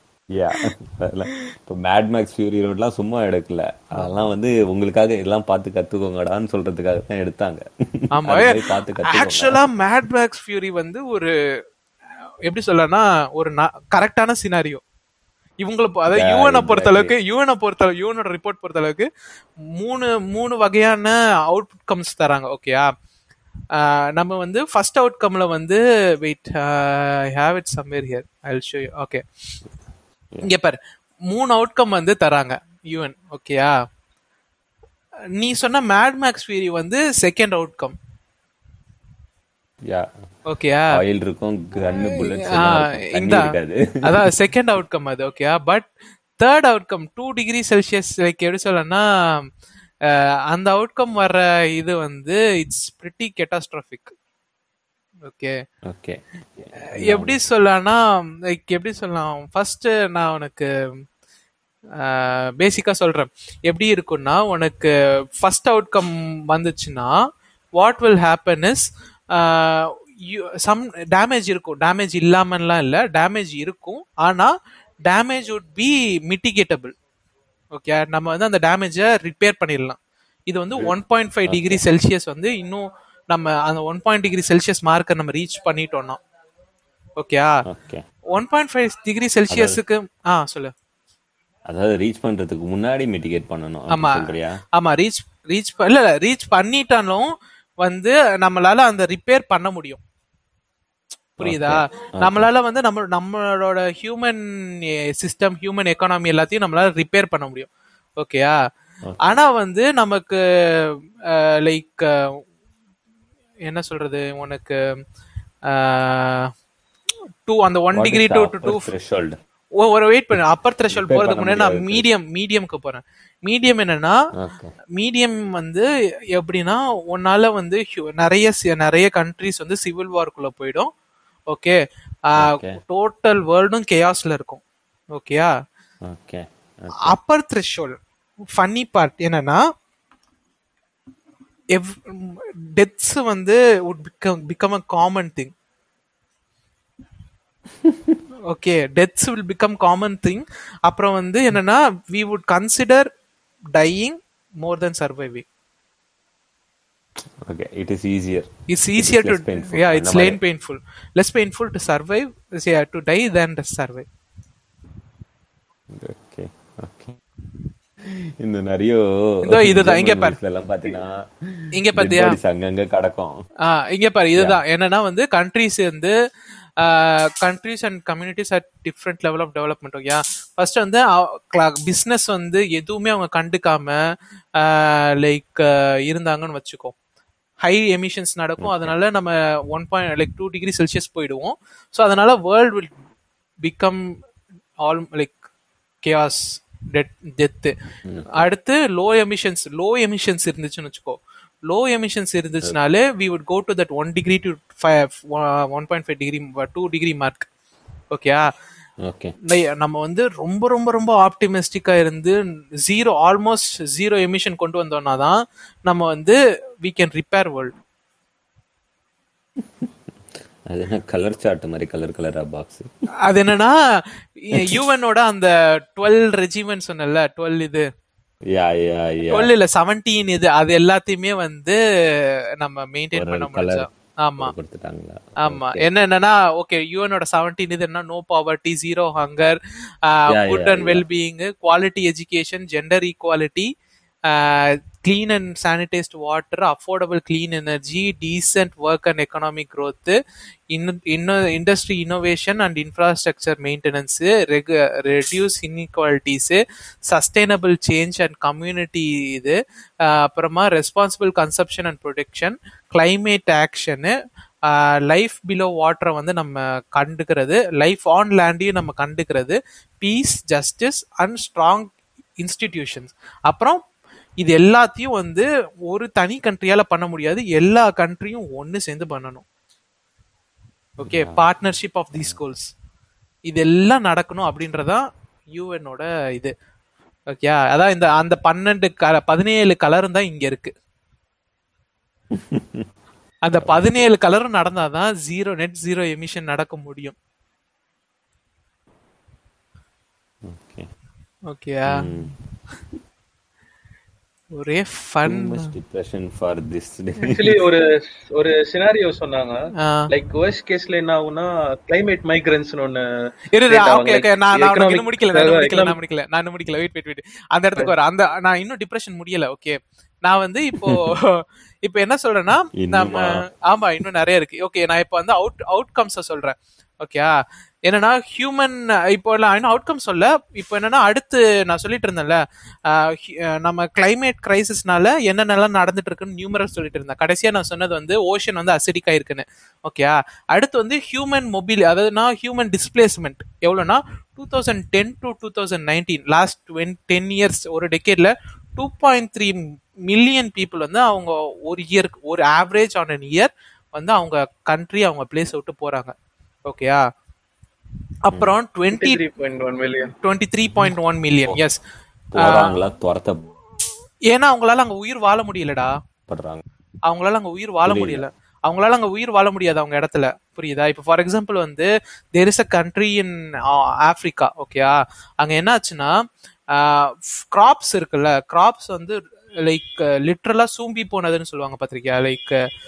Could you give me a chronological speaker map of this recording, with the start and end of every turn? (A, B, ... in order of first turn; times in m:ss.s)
0:00.3-0:09.6 A
0:08.2-0:11.3 B
0:12.5-0:14.8 B
0:15.6-0:19.1 B
0:16.1-0:17.1 A
0:19.8-0:22.9 B
0:23.8-0:29.2 B
0:30.4-0:30.8 B
0:31.3-0:33.8 B
0:35.4-0:37.9 B
0:39.8-0:40.1 A
0:40.5-0:41.0 B
0:40.9-0:44.0 A
0:42.0-0:43.5 B
0:44.0-0:49.4 B
0:50.1-0:54.1 B
0:55.3-0:55.6 B
0:55.9-0:57.4 A
0:56.9-1:00.7 B
1:02.0-1:07.1 B
1:07.8-1:14.5 B
1:15.0-1:16.9 B
1:17.7-1:20.0 B
1:20.5-1:26.2 B
1:21.5-1:21.8 A
1:27.2-1:27.6 B
1:27.7-1:28.0 A
1:28.3-1:30.7 B
1:29.5-1:29.8 A
1:31.7-1:34.6 A
1:33.9-1:37.3 B
1:37.8-1:40.0 B
1:41.4-1:48.6 B
1:41.4-1:42.5 A
1:49.0-1:49.4 A
1:49.2-1:52.4 B
1:53.7-1:55.0 B
1:55.7-1:56.5 B
1:57.5-1:58.9 B
1:57.9-1:59.4 A
1:59.8-2:04.2 B
2:00.9-2:02.1 A
2:04.4-2:04.7 A
2:05.0-2:10.9 B
2:11.5-2:11.8 B
2:12.3-2:14.6 B
2:12.4-2:12.8 A
2:15.1-2:15.5 B
2:16.0-2:17.2 A
2:17.0-2:18.0 B
2:18.6-2:19.6 B
2:21.7-2:25.5 B
2:27.8-2:28.2 A
2:28.5-2:33.1 B
2:33.8-2:35.4 B
2:37.4-2:40.4 A
2:38.7-2:44.1 B
2:45.9-2:47.2 A
2:48.0-2:53.4 A
2:49.4-2:50.4 B
2:51.7-2:52.4 B
2:53.6-2:56.1 B
2:56.8-3:04.0 B
3:04.6-3:06.9 B
3:07.6-3:12.9 B
3:08.6-3:08.9 A
3:13.6-3:14.0 B
3:14.8-3:15.4 B
3:16.0-3:17.7 B
3:18.1-3:18.5 A
3:18.3-3:27.5 B
3:28.1-3:28.4 B
3:29.0-3:29.4 A
3:29.5-3:37.7 B
3:39.6-3:39.9 A
3:40.7-3:42.9 A
3:43.2-3:43.8 B
3:44.4-3:47.9 B
3:44.5-3:44.8 A
3:48.5-3:49.5 A
3:49.3-3:54.5 B
3:53.1-3:53.9 A
3:54.4-3:55.9 A
3:55.4-4:03.7 B
4:00.3-4:01.0 A
4:04.3-4:10.2 B
4:10.7-4:24.2 B
4:24.7-4:33.8 B
4:34.4-4:39.4 B
4:41.0-4:42.7 B
4:41.0-4:41.5 A
4:43.5-4:46.5 B
4:47.3-4:50.7 B
4:52.3-4:52.9 A
4:53.4-4:57.2 B
5:00.4-5:00.9 A
5:01.5-5:02.1 B
5:01.9-5:02.4 A
5:04.6-5:05.7 B
5:05.3-5:07.6 A
5:07.3-5:13.0 C
5:09.8-5:10.1 B
5:13.5-5:56.1 B
5:13.7-5:16.0 C
5:22.8-5:23.4 A
5:56.7-5:57.0 B
5:58.2-5:59.2 B
5:58.9-6:00.2 C
6:00.2-6:01.8 B
6:02.3-6:03.5 A
6:02.4-6:02.7 B
6:04.3-6:05.9 B
6:06.3-6:06.6 A
6:07.1-6:16.2 B
6:07.8-6:08.2 A
6:16.7-6:22.6 B